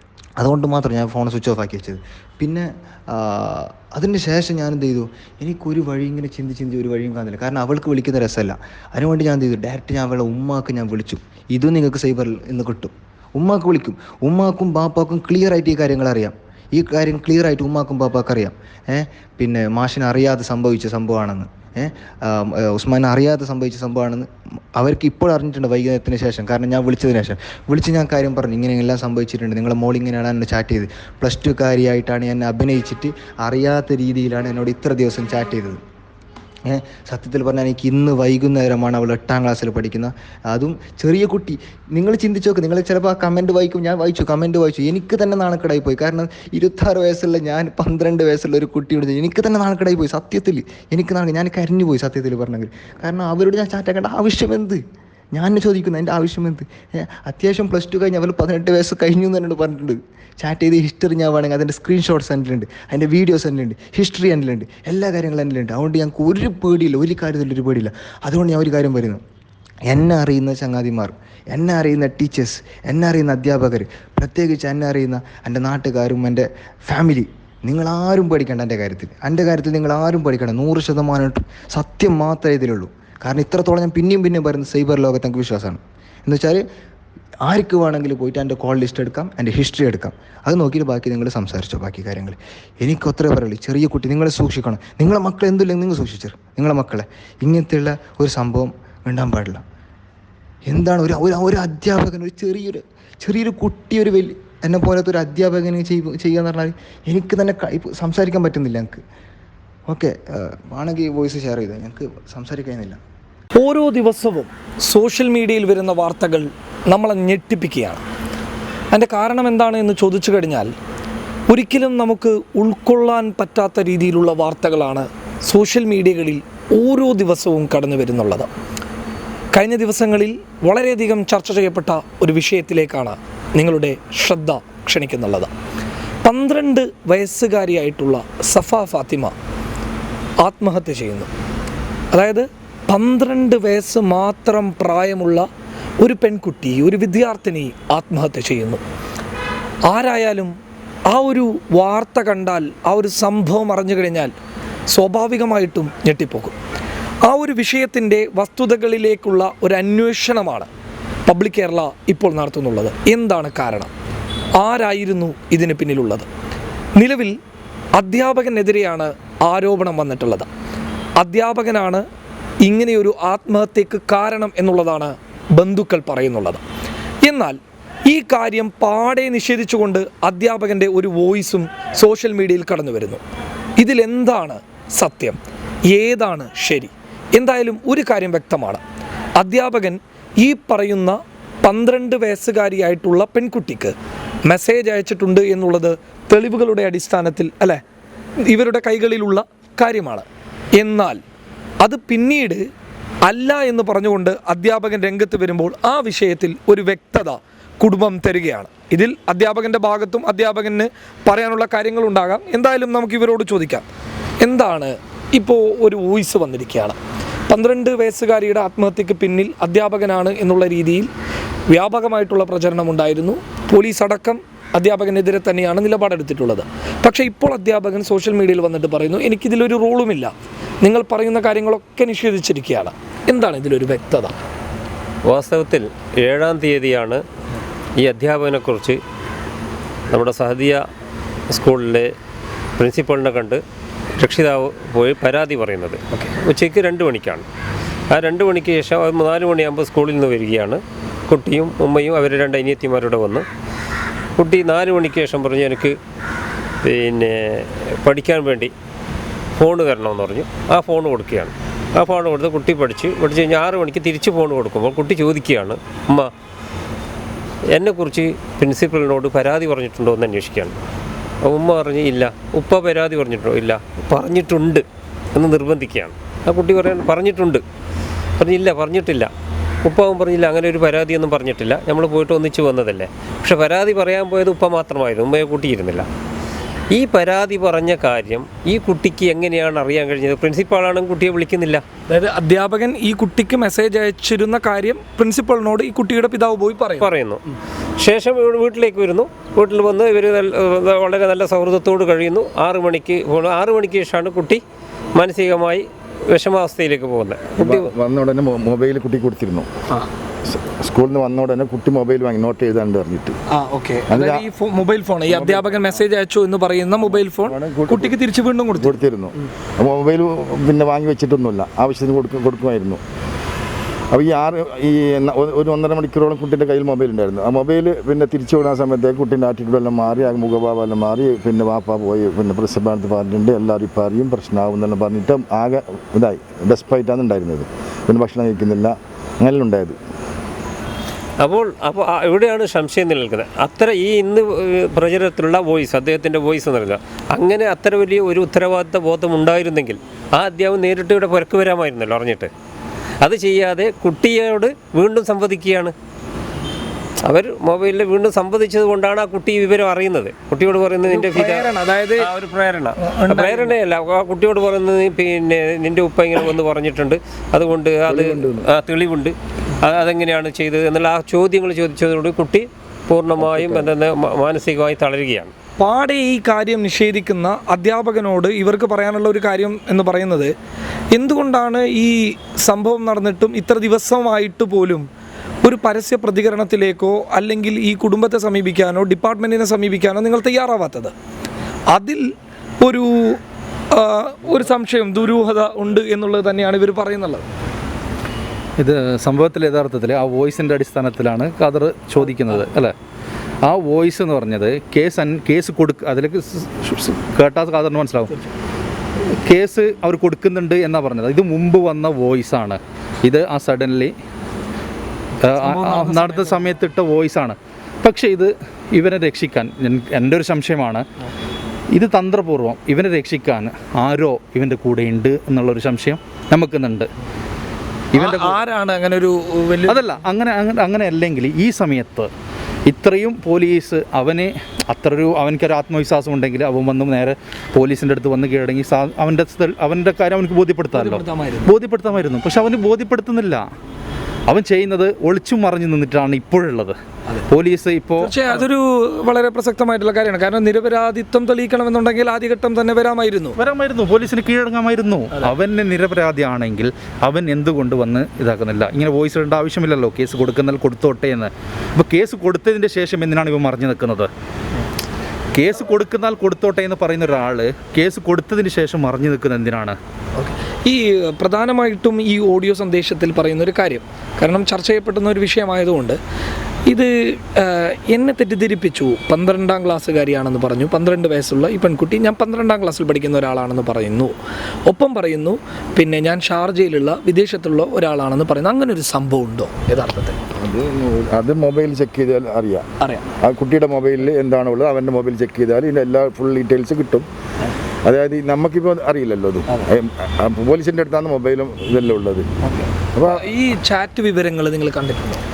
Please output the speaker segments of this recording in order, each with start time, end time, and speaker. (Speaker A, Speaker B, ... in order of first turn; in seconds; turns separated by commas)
Speaker A: 0.4-35.8, Speaker A: 36.7-54.8, Speaker A: 55.3-69.2, Speaker A: 69.9-86.6, Speaker A: 87.5-99.6, Speaker A: 100.7-109.0, Speaker A: 109.9-113.0, Speaker B: 113.5-118.0, Speaker B: 118.9-120.7, Speaker B: 121.5-128.5, Speaker B: 129.5-135.5, Speaker B: 136.2-139.3, Speaker B: 140.4-141.3, Speaker B: 142.1-145.5, Speaker B: 146.0-148.8, Speaker B: 149.8-150.5, Speaker B: 151.1-154.3, Speaker B: 154.9-156.6, Speaker B: 157.3-160.7, Speaker B: 161.3-163.9, Speaker B: 164.6-166.3, Speaker B: 166.9-167.4, Speaker B: 167.9-170.5, Speaker B: 171.2-172.0, Speaker B: 172.6-176.6, Speaker B: 177.2-183.2, Speaker B: 183.8-185.4, Speaker B: 185.9-188.8, Speaker B: 189.4-193.9, Speaker B: 194.4-197.8, Speaker B: 198.5-200.2, Speaker B: 200.8-201.2, Speaker B: 201.8-202.6, Speaker B: 203.2-213.8, Speaker B: 214.4-217.0, Speaker B: 217.5-221.1, Speaker B: 221.7-230.3, Speaker B: 230.8-234.3, Speaker C: 235.3-237.2, Speaker C: 238.0-239.0, Speaker C: 240.1-240.8, Speaker C: 241.5-242.1, Speaker C: 242.8-243.6, Speaker C: 244.2-247.4, Speaker C: 248.1-253.4, Speaker C: 254.4-256.0, Speaker C: 256.8-258.7, Speaker C: 259.6-266.3, Speaker C: 267.7-270.8, Speaker C: 271.4-277.6, Speaker C: 278.4-279.3, Speaker C: 279.8-286.1, Speaker C: 286.9-291.8, Speaker B: 292.1-297.1, Speaker C: 297.0-297.4, Speaker C: 298.0-304.6, Speaker C: 305.1-307.9, Speaker D: 307.6-309.7, Speaker D: 310.5-313.4, Speaker B: 313.5-319.0, Speaker D: 314.1-314.4, Speaker D: 315.2-315.9, Speaker D: 317.0-318.1, Speaker D: 318.8-323.0, Speaker D: 324.1-340.0, Speaker C: 341.4-352.5, Speaker C: 353.2-355.9, Speaker C: 357.2-375.5, Speaker B: 361.1-362.3, Speaker B: 363.0-363.7, Speaker D: 368.1-368.7, Speaker D: 373.4-373.9, Speaker B: 375.8-380.5, Speaker B: 381.1-385.1, Speaker B: 385.6-391.1, Speaker B: 391.9-392.2, Speaker B: 392.8-393.4, Speaker B: 393.9-397.4, Speaker E: 398.8-402.9, Speaker E: 403.6-408.3, Speaker E: 409.4-414.1, Speaker E: 415.4-421.0, Speaker B: 415.5-416.6, Speaker E: 421.9-427.1, Speaker E: 428.1-428.6, Speaker B: 428.1-430.0, Speaker E: 429.9-432.3, Speaker E: 432.9-443.6, Speaker B: 440.9-441.7, Speaker E: 444.5-447.0, Speaker E: 447.5-448.4, Speaker B: 448.2-453.6, Speaker E: 453.6-464.3, Speaker E: 465.5-470.0, Speaker B: 470.4-476.2, Speaker B: 476.9-484.3, Speaker B: 484.9-490.4, Speaker D: 490.6-492.8, Speaker B: 493.0-493.2, Speaker D: 493.4-497.2, Speaker D: 498.0-502.5, Speaker B: 502.6-505.4, Speaker D: 503.1-503.4